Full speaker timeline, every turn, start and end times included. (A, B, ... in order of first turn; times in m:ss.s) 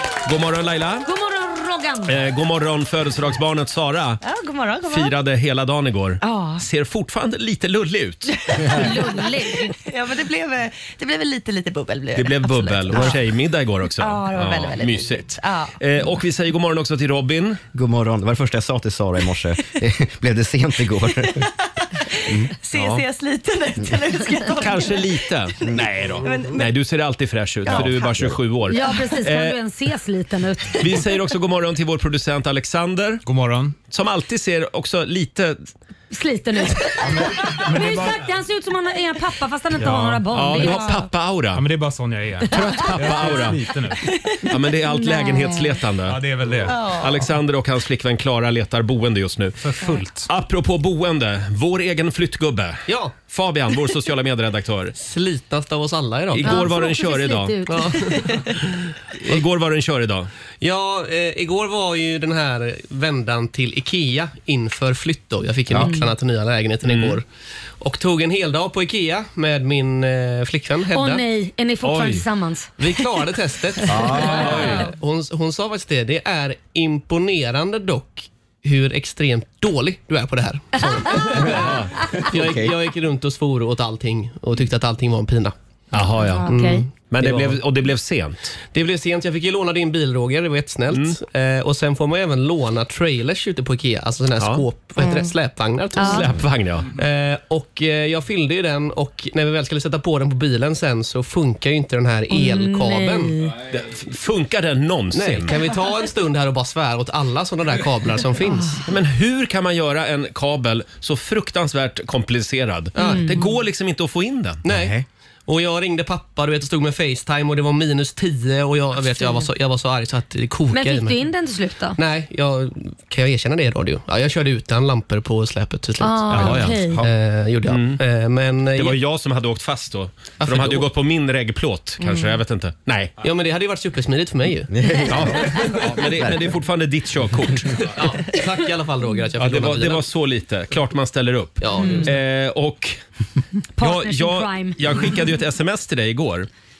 0:00.2-0:01.1 A
0:01.0-0:02.2 B
0:02.1-0:04.2 A
0:04.2-0:05.1 C
0:04.9-0:08.4 A
0:06.2-0:06.6 C
0:08.4-0:13.3 C
0:08.6-0:09.7 B
0:12.1-0:17.6 A
0:14.0-0:15.8 C
0:17.7-0:21.5 D
0:21.2-0:26.8 C
0:22.2-0:22.5 D
0:22.7-0:23.0 A
0:24.6-0:29.6 A
0:25.6-0:26.3 D
0:27.6-0:28.3 C
0:27.7-0:28.4 D
0:28.6-0:31.2 B
0:30.7-0:33.2 A
0:33.2-0:33.7 E
0:33.9-0:35.6 A
0:36.1-0:41.1 B
0:37.0-0:38.3 E
0:39.8-0:40.7 E
0:40.3-0:41.6 A
0:41.5-0:44.1 E
0:42.5-0:43.3 B
0:42.5-0:43.6 A
0:44.5-0:49.6 A
0:44.8-0:45.8 B
0:46.0-0:47.0 E
0:46.7-0:47.2 C
0:49.6-0:50.3 E
0:50.2-0:55.0 A
0:52.9-0:53.1 F
0:55.0-0:56.7 F
0:56.3-0:57.5 A
0:56.4-0:58.5 B
0:57.7-0:58.5 F
0:59.2-1:00.3 A
1:00.6-1:07.2 F
1:05.8-1:06.1 B
1:06.8-1:07.2 A
1:07.8-1:11.2 F
1:10.9-1:12.9 B
1:11.8-1:12.2 A
1:12.8-1:25.5 F
1:13.8-1:14.5 D
1:14.2-1:14.9 A
1:20.9-1:21.4 B
1:21.4-1:21.9 A
1:22.3-1:22.7 D
1:25.9-1:28.6 A
1:26.4-1:26.8 B
1:26.4-1:27.6 F
1:28.7-1:36.3 F
1:30.9-1:31.2 A
1:34.4-1:34.6 A
1:36.0-1:36.3 B
1:36.0-1:36.9 A
1:36.9-1:43.4 F
1:42.3-1:43.6 B
1:43.7-1:45.5 A
1:45.1-1:48.8 F
1:48.6-1:48.8 B
1:48.8-1:54.6 A
1:53.0-1:53.4 F
1:53.0-1:53.4 B
1:54.6-1:55.0 D
1:54.6-2:01.2 F
1:59.0-1:59.5 B
2:00.7-2:02.0 B
2:02.0-2:09.0 F
2:06.0-2:07.0 B
2:06.3-2:06.8 A
2:07.7-2:08.0 A
2:08.7-2:13.1 A
2:10.4-2:10.9 F
2:13.2-2:14.7 F
2:14.7-2:16.5 D
2:15.1-2:17.8 A
2:17.8-2:20.1 F
2:19.4-2:23.0 A
2:21.6-2:22.1 F
2:21.8-2:22.1 B
2:23.8-2:25.1 B
2:23.8-2:26.5 A